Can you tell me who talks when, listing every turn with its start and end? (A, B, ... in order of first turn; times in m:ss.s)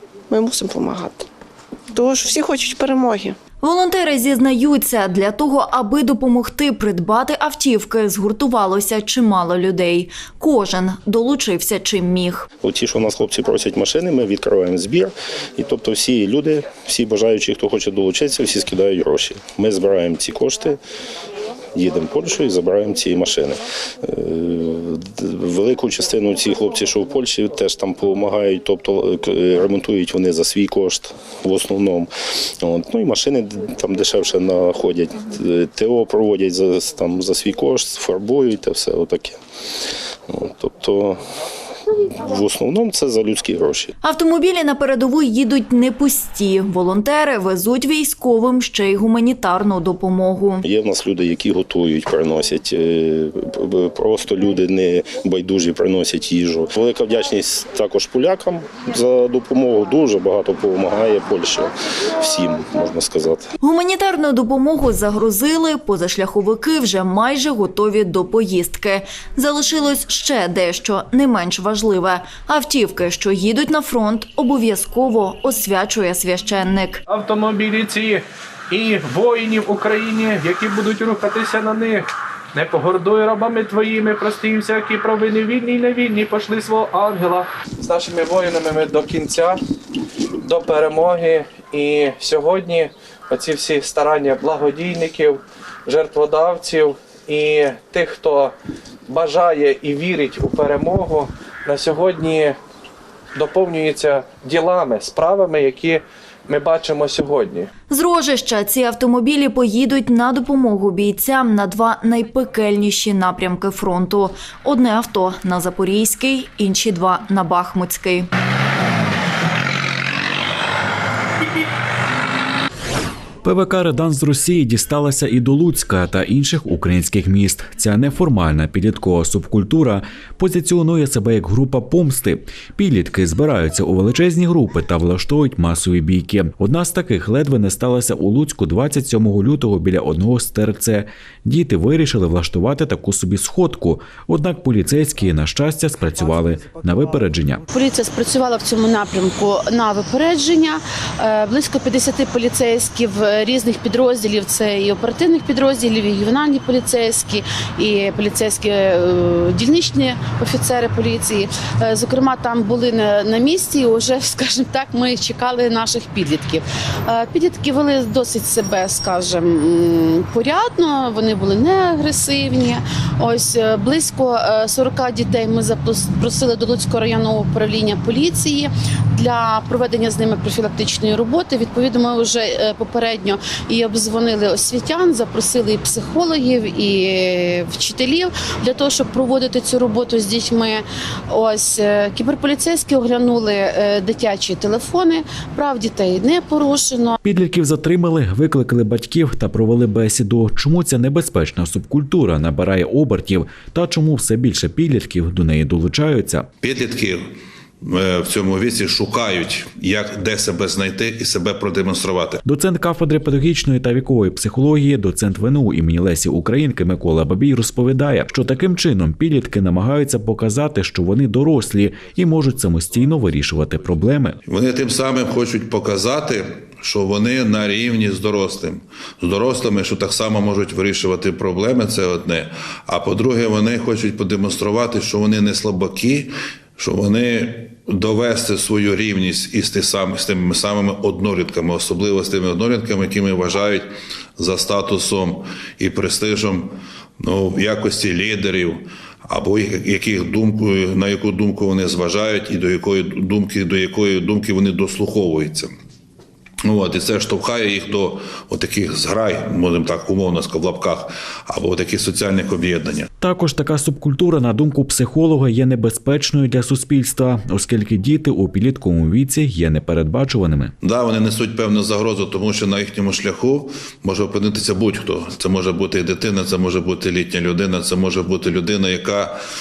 0:00.3-0:01.3 A
0:01.9-0:03.4 A
0:03.6-0:12.5 B
0:12.6-0:20.8 C
0:21.7-0:32.1 C
0:32.6-0:39.4 C
0:40.3-0:41.2 C
0:42.0-0:43.9 C
0:44.0-0:50.6 B
0:50.6-1:03.5 C
1:03.6-1:17.0 B
1:17.1-1:29.6 D
1:30.4-1:38.5 D
1:39.1-1:42.6 D
1:43.4-1:47.7 D
1:47.9-1:58.3 B
2:03.4-2:27.6 E
2:27.7-3:17.2 F
3:17.2-3:26.5 E
3:26.6-3:32.4 G
3:32.4-3:44.4 E
3:44.4-4:15.7 G
4:16.6-4:23.1 G
4:23.2-4:30.7 E
4:30.8-4:39.4 G